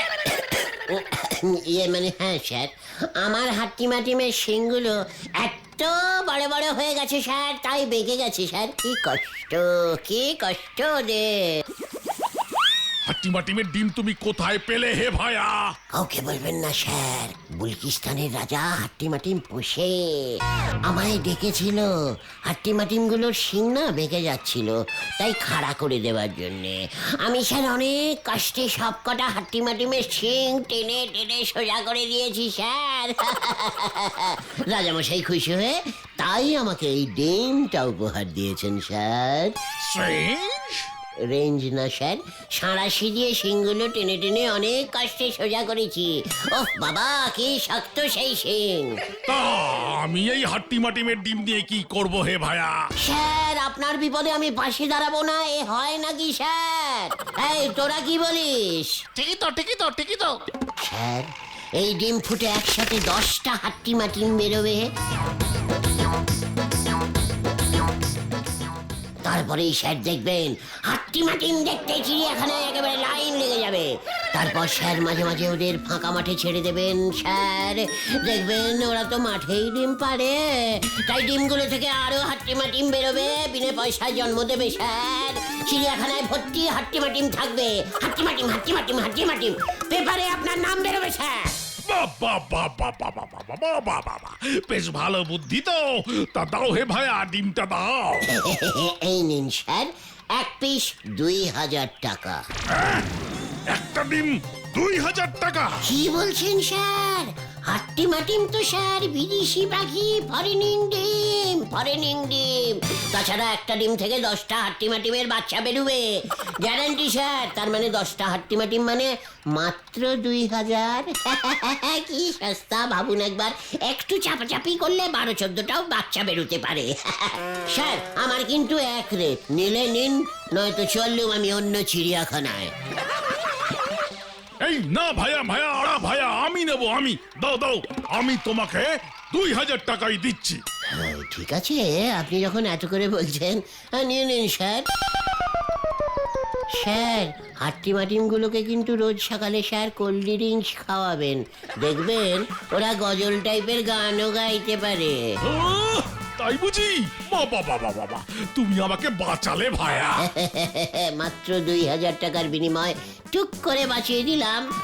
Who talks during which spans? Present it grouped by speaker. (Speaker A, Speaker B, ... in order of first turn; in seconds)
Speaker A: 0.1-11.3, 15.9-21.9, 22.5-39.5, 41.2-48.9, 53.0-59.0, 60.8-64.8, 69.2-91.5, 98.3-102.4, 105.8-116.0, 116.6-132.7, 140.9-144.8, 146.7-155.2, 160.2-164.7
Speaker B: 13.1-15.7, 49.3-52.8, 91.8-98.2, 102.7-103.1, 103.7-105.8, 134.6-140.6, 155.4-160.2
Speaker C: 39.8-40.8, 59.1-60.4